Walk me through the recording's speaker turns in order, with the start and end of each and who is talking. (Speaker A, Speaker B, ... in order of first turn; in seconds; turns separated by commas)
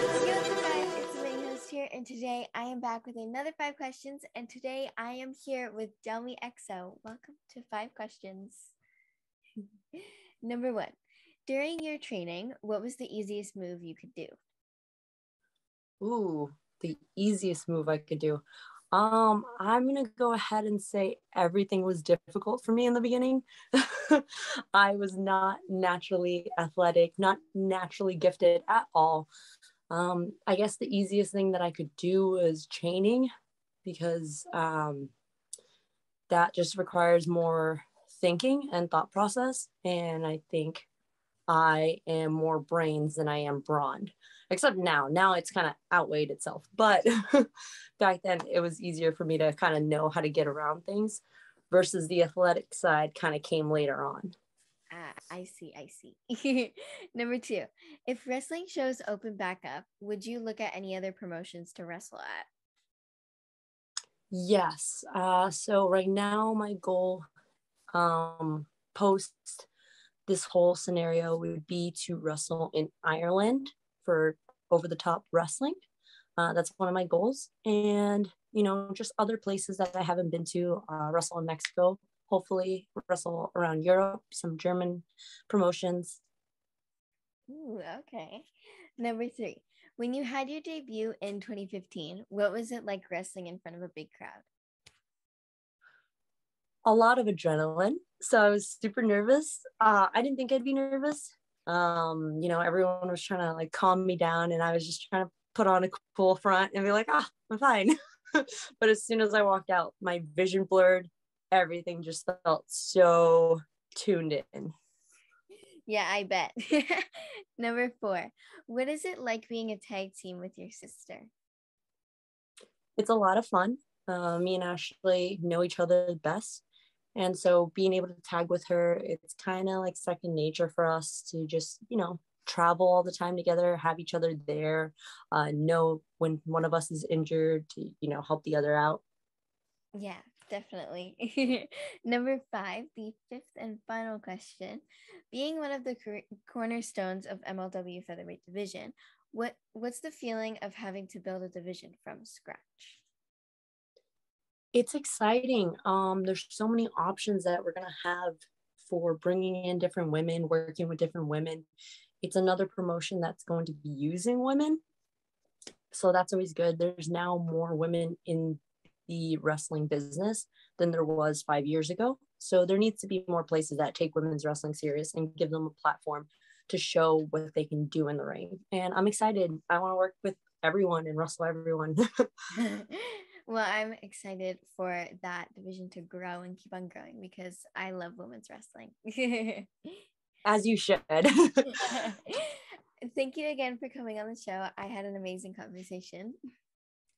Speaker A: 0.1-8.8, Speaker A: 10.0-14.4, Speaker B: 16.0-29.3, Speaker B: 29.9-33.3, Speaker B: 33.8-35.1, Speaker B: 36.3-40.9, Speaker B: 41.5-54.3, Speaker A: 54.9-62.5, Speaker B: 64.3-67.2, Speaker B: 67.9-69.7, Speaker B: 70.3-75.8, Speaker B: 76.4-86.2, Speaker A: 87.5-94.5, Speaker B: 96.8-114.8, Speaker A: 115.9-121.3, Speaker B: 123.0-126.6, Speaker B: 127.2-139.0, Speaker A: 139.9-153.0, Speaker B: 154.7-161.7, Speaker B: 162.2-164.8, Speaker B: 165.9-182.0, Speaker A: 182.6-189.9, Speaker B: 190.4-192.0, Speaker A: 191.8-196.4